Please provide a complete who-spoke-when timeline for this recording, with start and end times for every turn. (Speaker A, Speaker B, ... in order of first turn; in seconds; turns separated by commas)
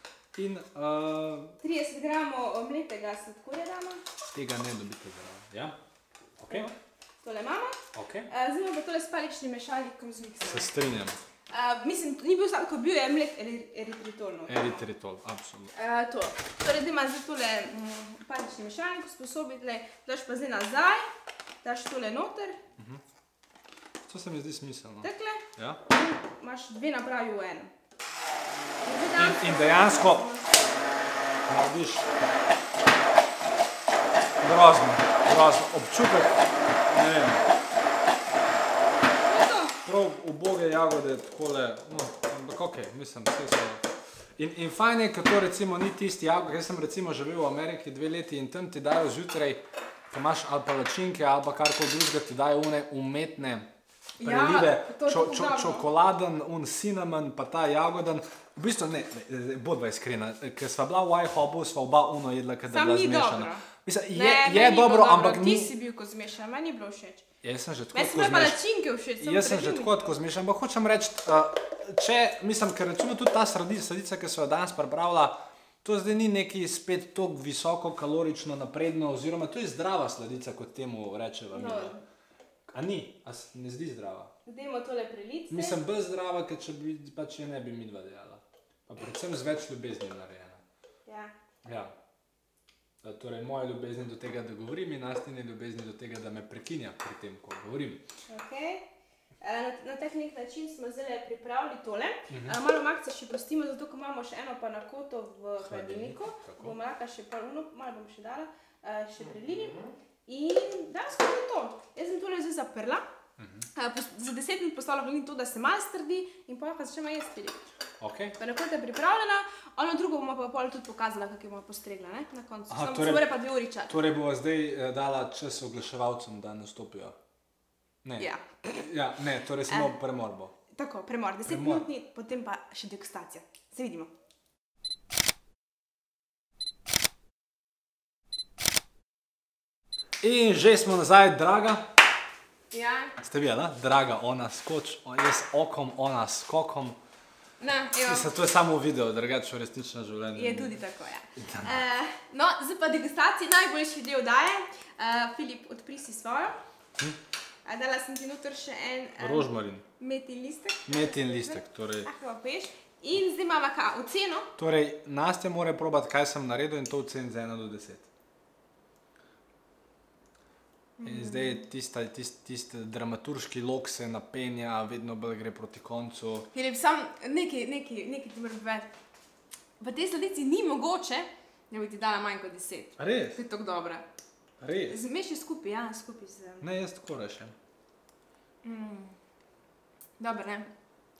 Speaker A: 0.3-1.6, Speaker B: 1.6-4.0, Speaker A: 4.3-5.8, Speaker A: 6.4-6.7, Speaker B: 7.2-7.8, Speaker A: 7.9-8.3, Speaker B: 8.3-10.7, Speaker A: 10.4-11.2, Speaker B: 11.5-14.8, Speaker A: 14.5-15.7, Speaker B: 15.8-21.1, Speaker B: 21.6-22.6, Speaker A: 24.1-25.8, Speaker B: 25.0-27.7, Speaker B: 28.8-30.7, Speaker A: 29.2-30.2, Speaker A: 31.5-32.1, Speaker A: 34.4-37.4, Speaker B: 39.2-39.8, Speaker A: 39.8-43.8, Speaker A: 44.4-53.7, Speaker B: 54.2-55.9, Speaker A: 54.2-65.7, Speaker B: 62.7-67.2, Speaker A: 67.4-68.6, Speaker B: 67.9-69.9, Speaker A: 69.2-81.9, Speaker B: 81.5-82.0, Speaker A: 82.7-84.3, Speaker B: 84.5-85.8, Speaker A: 85.5-90.6, Speaker B: 91.1-91.3, Speaker A: 91.7-91.9, Speaker A: 93.0-98.0, Speaker B: 98.3-98.9, Speaker B: 99.4-113.0, Speaker A: 102.3-102.6, Speaker A: 105.6-106.8, Speaker A: 113.4-113.7, Speaker B: 113.8-117.6, Speaker A: 118.0-118.4, Speaker B: 118.4-124.0, Speaker A: 122.7-123.3, Speaker A: 123.9-127.2, Speaker A: 128.1-130.5, Speaker B: 128.2-128.6, Speaker B: 129.7-129.9, Speaker B: 130.8-134.1, Speaker A: 131.5-131.8, Speaker A: 140.2-141.9, Speaker B: 142.7-143.2, Speaker A: 143.2-147.0, Speaker B: 147.6-148.3, Speaker A: 148.0-150.8, Speaker B: 150.3-156.6, Speaker A: 151.4-151.8, Speaker B: 157.7-164.5, Speaker A: 159.2-159.8, Speaker A: 160.9-162.1, Speaker A: 164.6-168.1, Speaker B: 171.0-171.6, Speaker A: 171.0-176.5, Speaker B: 176.5-178.9, Speaker B: 179.8-184.1, Speaker A: 183.0-183.4, Speaker A: 184.6-185.0, Speaker B: 184.9-186.6, Speaker A: 186.6-187.5, Speaker B: 188.6-189.2, Speaker B: 190.2-190.7